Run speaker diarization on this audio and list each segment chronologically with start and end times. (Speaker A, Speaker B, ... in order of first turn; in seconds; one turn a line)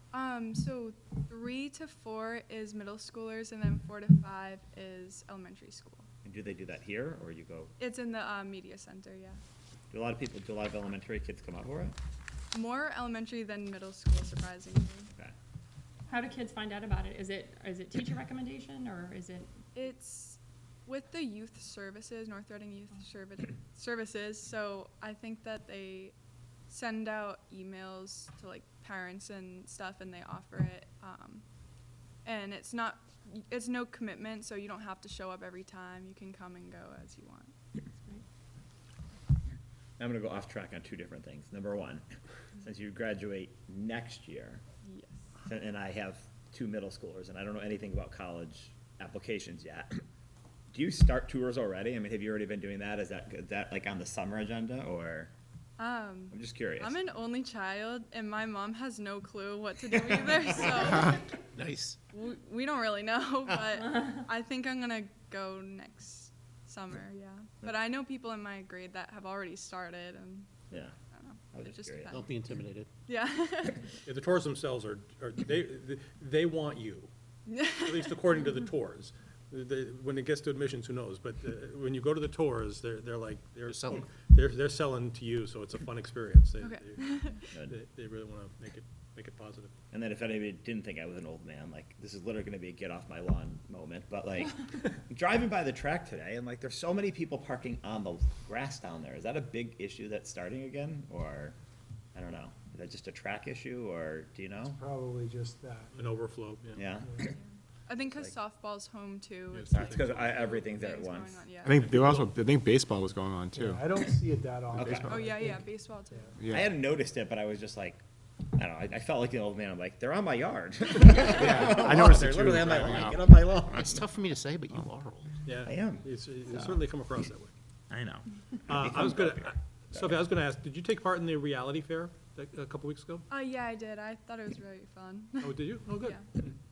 Speaker A: 0.1-6.1
Speaker B: 6.2-7.7
Speaker A: 7.8-9.4
Speaker B: 9.9-11.9
Speaker A: 12.5-15.1
Speaker C: 16.1-19.5
Speaker A: 19.7-26.1
Speaker A: 26.7-31.4
Speaker A: 32.2-37.5
Speaker C: 38.0-38.2
Speaker B: 40.0-42.0
Speaker B: 42.6-44.6
Speaker A: 44.8-45.4
Speaker B: 45.4-50.0
Speaker B: 50.7-55.3
Speaker A: 55.8-61.4
Speaker B: 56.3-57.0
Speaker D: 61.6-62.0
Speaker A: 62.1-70.6
Speaker A: 71.1-74.0
Speaker B: 71.5-72.2
Speaker D: 72.1-72.9
Speaker E: 74.3-77.1
Speaker D: 75.2-76.4
Speaker A: 77.5-78.2
Speaker E: 77.8-83.8
Speaker D: 83.2-84.7
Speaker E: 84.7-87.1
Speaker A: 86.6-87.4
Speaker E: 87.9-89.7
Speaker B: 89.9-101.6
Speaker B: 102.2-104.8
Speaker F: 104.7-106.0
Speaker E: 106.0-106.9
Speaker B: 106.8-107.3
Speaker A: 107.2-111.9
Speaker E: 109.5-110.3
Speaker B: 109.7-112.2
Speaker G: 111.7-113.8
Speaker F: 113.5-116.3
Speaker B: 114.7-115.1
Speaker G: 114.8-115.2
Speaker A: 115.1-116.4
Speaker G: 116.4-116.7
Speaker B: 116.5-118.0
Speaker B: 118.5-124.1
Speaker G: 121.3-124.0
Speaker D: 121.8-122.9
Speaker D: 124.0-125.3
Speaker E: 125.4-127.5
Speaker B: 125.6-126.1
Speaker B: 127.9-130.2
Speaker E: 128.7-133.2
Speaker A: 133.3-136.2
Speaker E: 135.4-136.5